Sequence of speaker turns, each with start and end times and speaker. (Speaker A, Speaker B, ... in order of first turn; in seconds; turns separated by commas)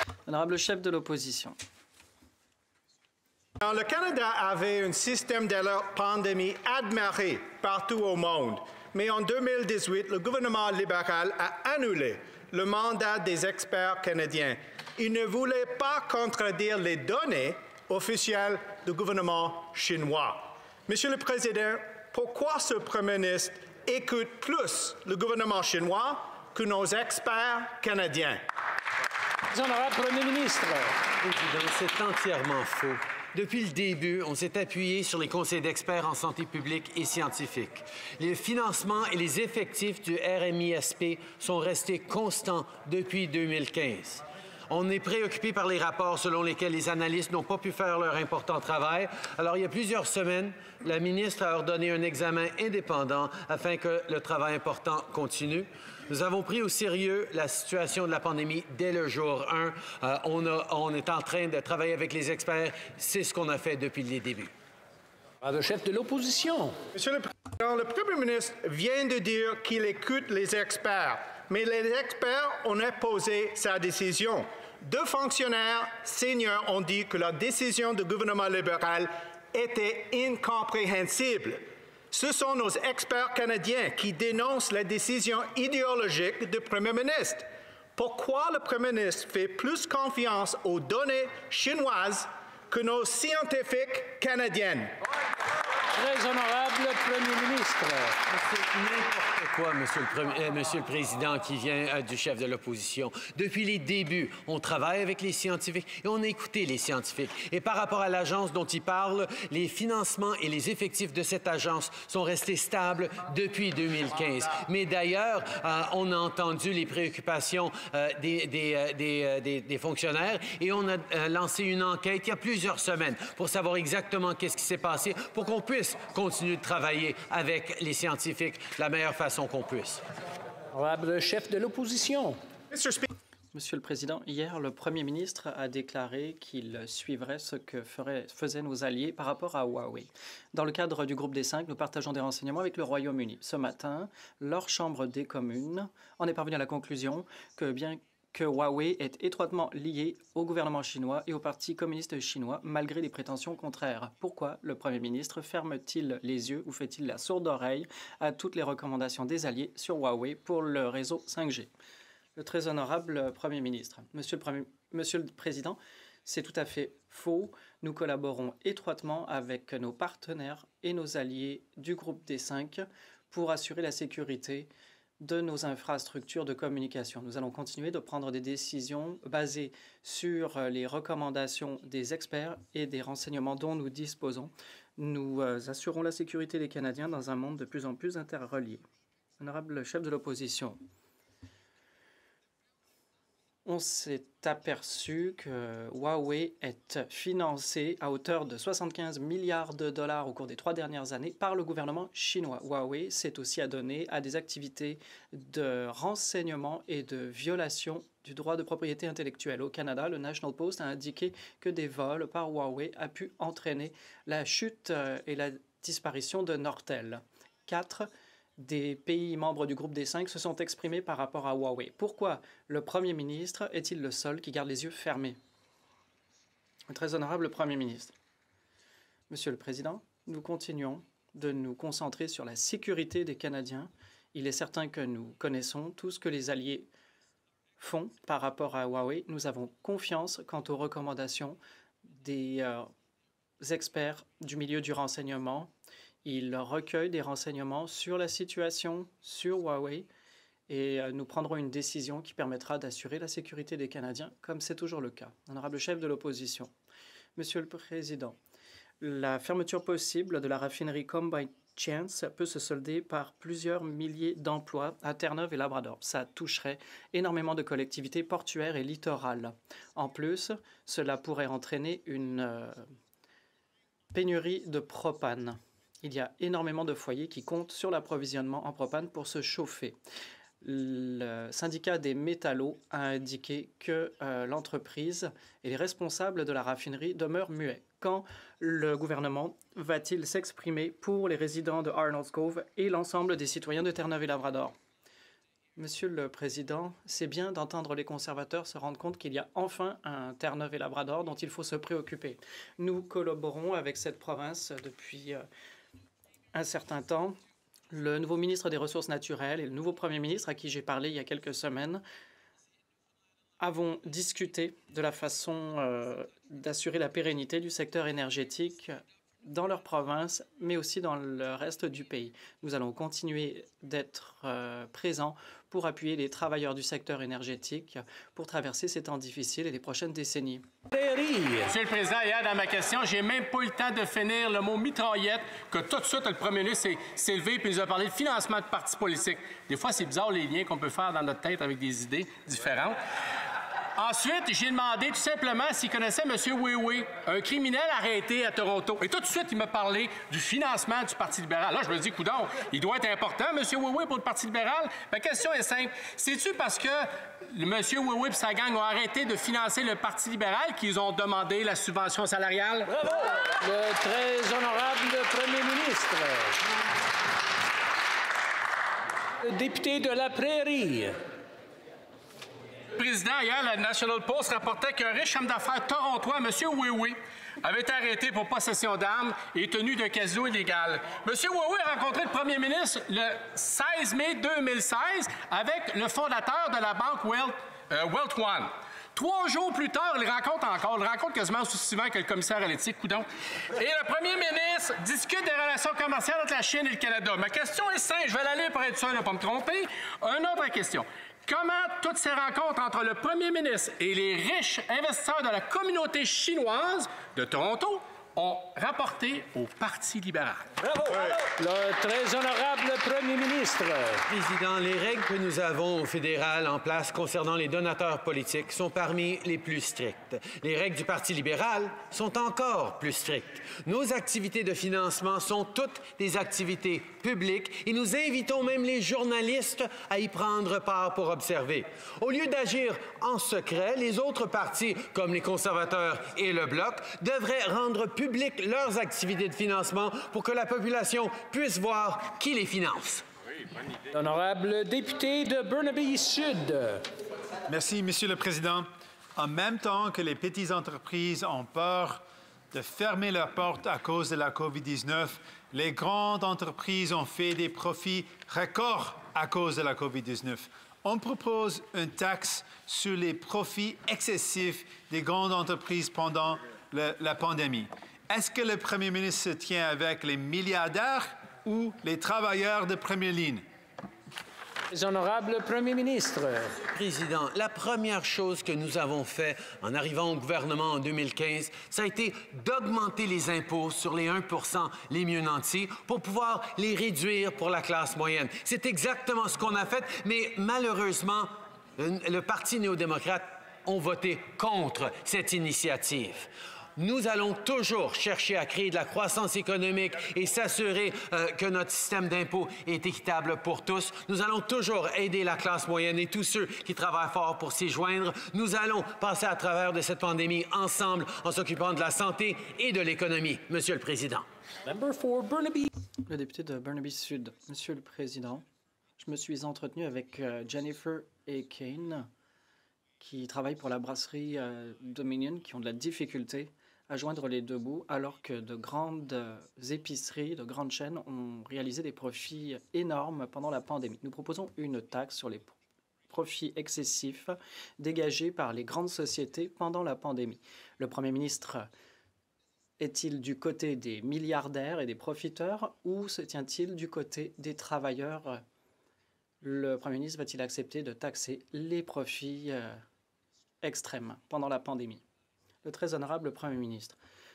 Speaker A: 0.3-1.6, Speaker B: 3.6-28.4, Speaker C: 29.5-30.9, Speaker D: 31.2-64.5, Speaker C: 65.4-66.8, Speaker B: 66.9-94.9, Speaker C: 95.9-98.2, Speaker D: 98.3-130.0, Speaker C: 130.7-132.4, Speaker B: 132.7-133.1, Speaker A: 133.5-161.7, Speaker A: 162.3-174.7, Speaker A: 175.2-188.8, Speaker A: 189.4-190.8, Speaker A: 193.6-225.4, Speaker A: 226.9-228.1, Speaker A: 229.3-236.9, Speaker A: 237.8-242.9, Speaker A: 243.6-245.7, Speaker A: 246.2-250.1, Speaker A: 250.7-256.7, Speaker A: 257.4-258.4, Speaker A: 259.0-272.9, Speaker A: 274.1-280.0, Speaker A: 280.6-294.8, Speaker A: 295.8-305.4, Speaker A: 306.5-307.4, Speaker A: 307.9-312.0, Speaker A: 313.6-330.6, Speaker C: 330.9-331.7, Speaker E: 331.7-343.0, Speaker E: 343.9-362.9, Speaker C: 362.9-366.6, Speaker C: 369.4-371.2, Speaker E: 372.9-410.8, Speaker C: 411.6-414.2, Speaker D: 414.3-443.2, Speaker C: 444.1-447.0, Speaker F: 447.7-473.6, Speaker C: 474.9-476.7, Speaker D: 476.9-514.5, Speaker C: 514.8-515.9, Speaker A: 516.2-518.6, Speaker A: 519.2-522.3, Speaker A: 523.2-535.7, Speaker A: 536.3-541.9, Speaker A: 543.0-548.6, Speaker A: 549.6-553.0, Speaker A: 553.8-555.2, Speaker A: 555.8-557.2